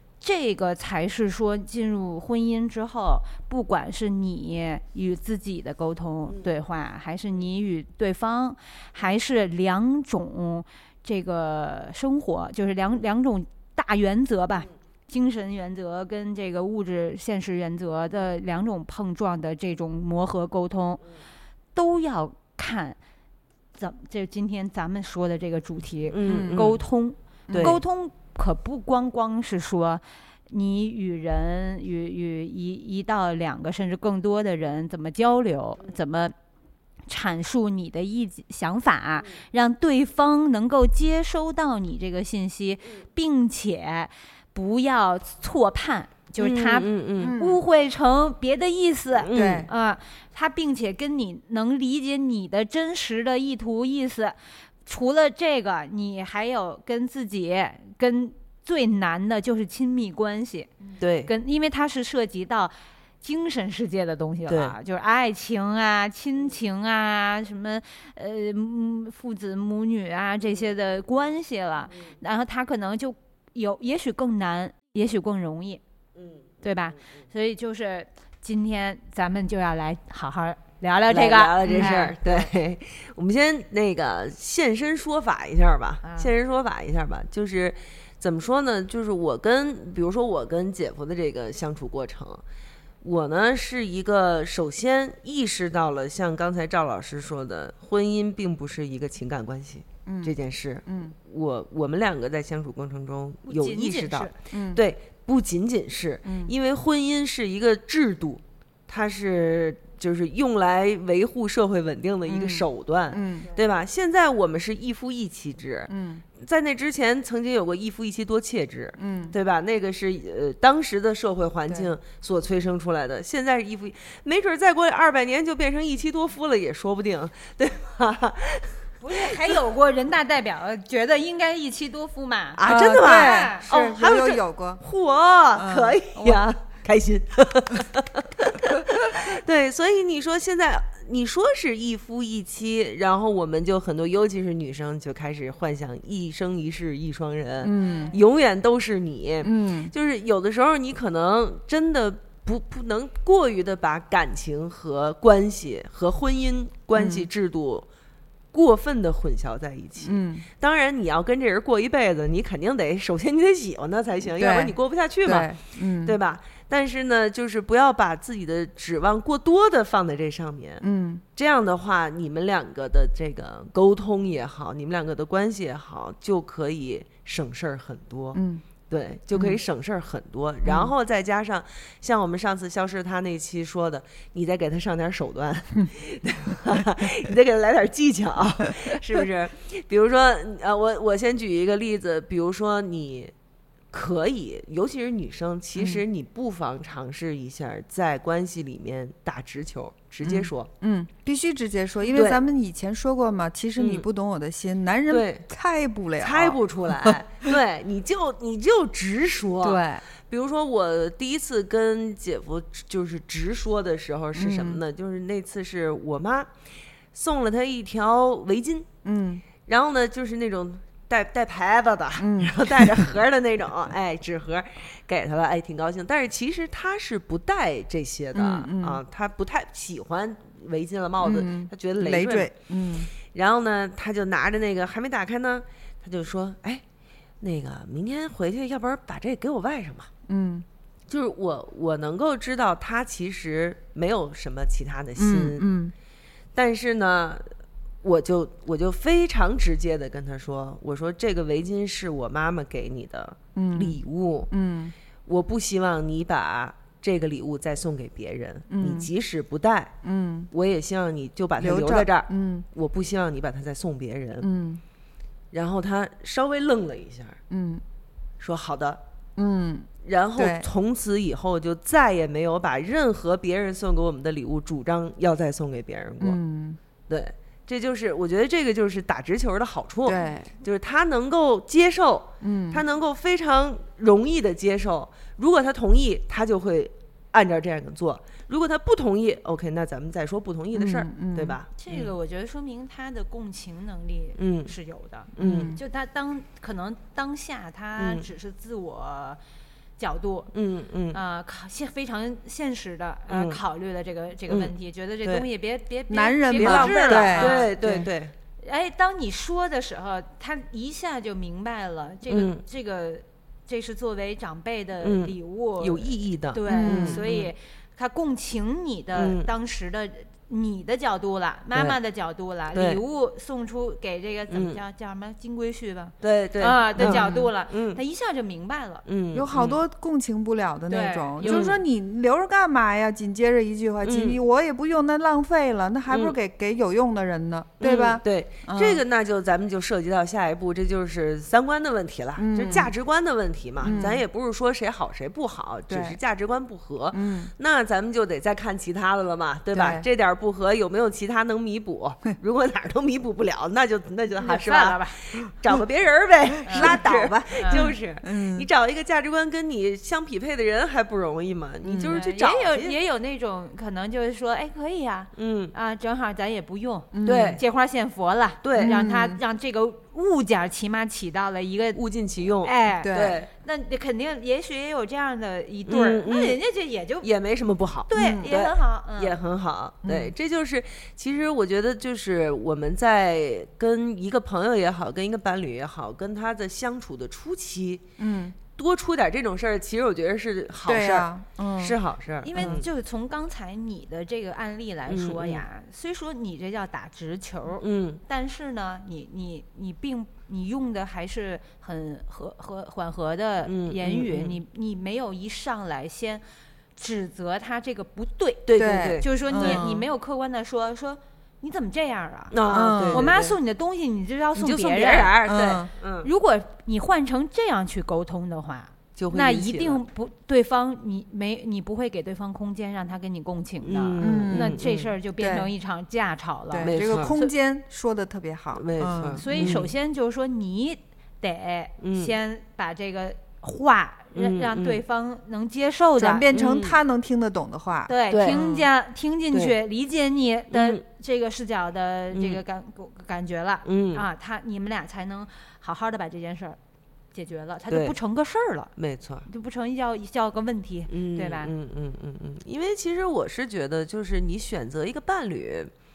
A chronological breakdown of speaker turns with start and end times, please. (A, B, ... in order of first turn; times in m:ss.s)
0:00.2-0:21.0 A
0:21.7-0:23.0 A
0:23.7-0:36.3 A
0:26.1-0:26.8 B
0:26.2-0:26.7 C
0:27.5-0:27.8 C
0:27.5-0:27.8 B
0:37.1-1:15.8 A
0:46.4-0:47.4 B
0:47.2-0:47.6 C
0:49.2-0:49.7 B
0:49.3-0:49.7 C
1:01.0-1:01.3 B
1:04.5-1:04.8 B
1:16.6-1:22.5 A
1:21.1-1:32.4 B
1:21.6-1:22.1 C
1:26.0-1:26.3 A
1:33.0-2:09.3 B
1:40.0-1:41.1 C
1:43.4-1:44.4 A
1:44.5-1:44.8 C
1:46.2-1:46.5 C
1:52.3-1:53.5 C
1:55.9-1:56.2 C
1:59.0-1:59.3 C
2:09.0-2:13.6 A
2:12.6-2:37.9 B
2:12.6-2:14.8 C
2:15.5-2:16.4 C
2:27.6-2:28.1 C
2:27.8-2:28.1 A
2:29.4-2:29.9 C
2:36.9-2:37.3 C
2:38.5-3:13.3 B
2:40.0-2:40.5 C
2:44.3-2:46.2 C
2:50.8-2:51.2 C
2:58.3-2:58.6 C
2:59.3-2:59.6 C
3:00.6-3:00.9 C
3:13.9-3:20.7 B
3:15.8-3:16.0 C
3:20.2-3:27.2 C
3:22.1-3:22.4 B
3:23.8-3:24.0 B
3:25.1-3:25.4 B
3:26.2-3:36.5 B
3:29.6-3:30.0 C
3:34.3-3:34.8 C
3:37.1-3:38.9 B
3:39.0-3:39.4 C
3:39.6-3:52.5 B
3:42.2-3:43.0 C
3:48.3-3:49.0 C
3:51.2-3:53.1 C
3:53.2-3:56.8 B
3:57.4-4:00.1 B
4:00.3-4:00.6 C
4:01.1-4:05.6 B
4:05.2-4:05.9 C
4:06.5-4:14.5 B
4:13.5-4:14.9 C
4:15.2-4:19.9 B
4:18.7-4:19.1 C
4:20.0-4:20.5 C
4:20.5-4:24.5 B
4:21.6-4:22.6 C
4:24.4-4:24.8 C
4:25.5-4:27.4 B
4:27.5-4:27.8 C
4:28.4-4:29.0 B
4:29.4-4:30.6 C
4:30.0-4:36.4 B
4:36.2-4:36.8 C
4:37.1-4:52.1 B
4:40.0-4:40.5 C
4:42.4-4:42.8 C
4:50.7-4:51.6 C
4:51.8-4:59.4 A
4:54.4-4:54.7 B
4:55.4-4:55.8 B
4:55.4-4:55.8 C
4:58.0-4:58.3 B
5:00.0-5:00.5 A
5:00.5-5:01.2 B
5:01.1-5:07.7 A
5:03.3-5:03.6 B
5:04.5-5:04.7 B
5:06.1-5:08.1 C
5:06.6-5:08.3 B
5:08.6-5:29.0 A
5:12.3-5:12.6 B
5:15.0-5:17.5 B
5:16.7-5:17.2 C
5:19.2-5:19.5 B
5:22.7-5:23.0 B
5:24.5-5:24.8 B
5:26.2-5:28.0 B
5:27.0-5:27.5 C
5:29.0-5:29.8 B
5:29.3-5:39.0 C
5:30.9-5:31.7 A
5:31.4-5:31.8 B
5:34.0-5:34.4 B
5:36.1-5:36.4 B
5:37.8-6:03.0 B
5:42.4-5:42.9 C
5:43.8-5:44.2 C
5:45.9-5:46.2 C
5:47.1-5:47.5 C
5:49.7-5:50.0 C
5:54.4-5:55.2 A
5:56.7-5:57.0 A
5:56.7-5:58.7 C
5:57.6-5:57.9 A
6:01.8-6:02.1 C
6:02.0-6:12.0 A
6:05.4-6:05.7 B
6:07.1-6:07.6 C
6:07.2-6:07.6 B
6:08.6-6:09.0 B
6:08.8-6:09.4 C
6:11.9-6:13.5 B
6:12.6-6:17.3 A
6:13.0-6:13.4 C
6:15.9-6:16.6 B
6:17.2-6:28.0 B
6:18.1-6:19.4 A
6:18.1-6:18.5 C
6:20.0-6:20.3 C
6:28.2-6:28.6 C
6:28.7-6:32.9 B
6:30.8-6:32.0 C
6:32.4-6:46.4 A
6:32.6-6:32.8 C
6:35.1-6:35.6 B
6:37.8-6:38.2 B
6:43.6-6:44.6 B
6:47.0-6:52.6 A
6:48.7-6:49.8 B
6:48.8-6:50.1 C
6:52.5-6:53.6 B
6:52.7-6:53.3 C
6:53.1-6:55.3 A
6:54.6-6:56.3 B
6:55.4-6:55.9 C
6:56.2-7:07.5 A
6:59.2-7:00.0 B
7:03.8-7:05.1 B
7:04.2-7:04.8 C
7:05.4-7:05.7 C
7:06.7-7:09.9 C
7:06.8-7:07.3 B
7:08.7-7:09.9 B
7:09.4-7:16.5 A
7:12.0-7:12.3 B
7:14.3-7:15.0 B
7:16.2-7:18.8 C
7:16.5-7:17.0 B
7:18.1-7:26.8 A
7:18.3-7:18.6 B
7:20.7-7:21.0 B
7:22.3-7:22.6 B
7:23.8-7:24.2 B
7:27.3-7:28.9 A
7:27.9-7:28.1 B
7:29.0-7:29.5 B
7:29.5-7:31.7 A
7:31.1-7:35.9 B